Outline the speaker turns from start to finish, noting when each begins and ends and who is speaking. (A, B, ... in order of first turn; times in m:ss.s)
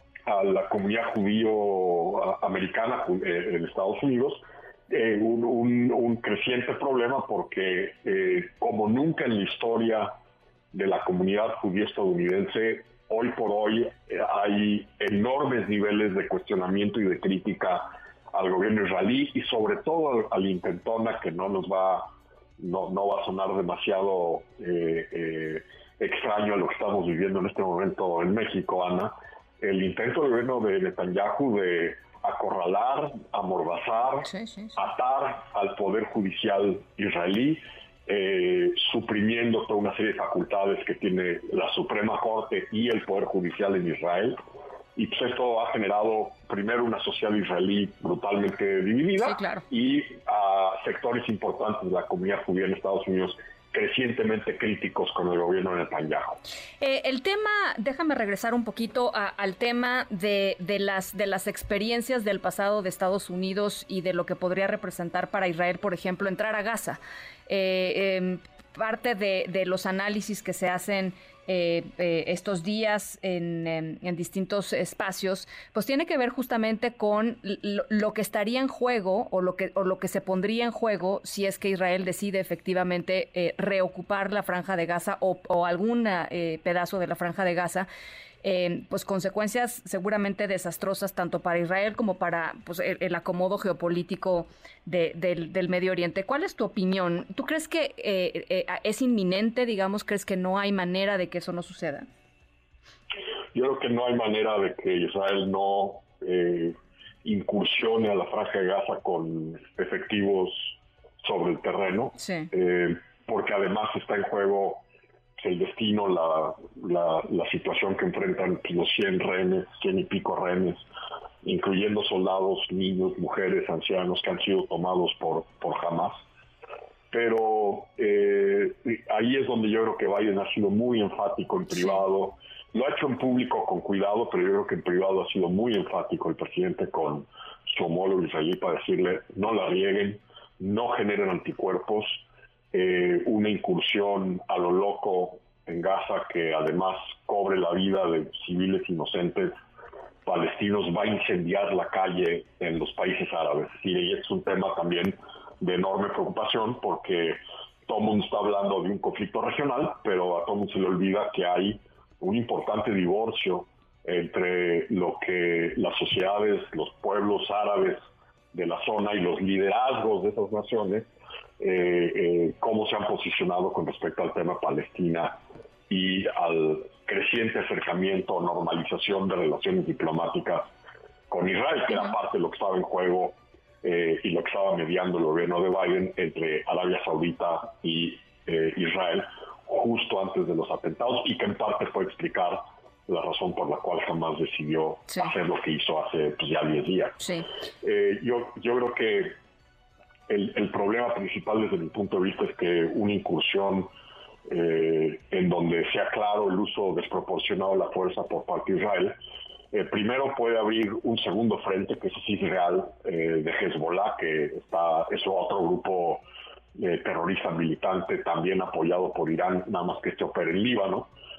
0:00.3-0:10.1 A
0:10.7-0:44.4 A
0:34.2-0:34.8 B
0:45.0-0:56.4 A
0:49.2-0:49.6 B
0:56.8-1:27.9 B
1:28.4-1:42.1 B
1:43.5-1:54.8 A
1:52.2-1:52.5 B
1:55.4-2:00.8 A
2:01.4-2:06.2 A
2:07.1-2:29.5 A
2:11.7-2:12.0 B
2:30.3-2:48.0 A
2:48.5-2:51.1 A
2:51.6-2:55.4 A
2:55.9-3:00.7 A
3:01.3-3:17.2 A
3:17.2-3:17.5 B
3:17.8-3:19.4 A
3:20.3-3:23.9 A
3:24.5-3:29.2 A
3:29.7-3:36.2 A
3:36.8-3:41.1 A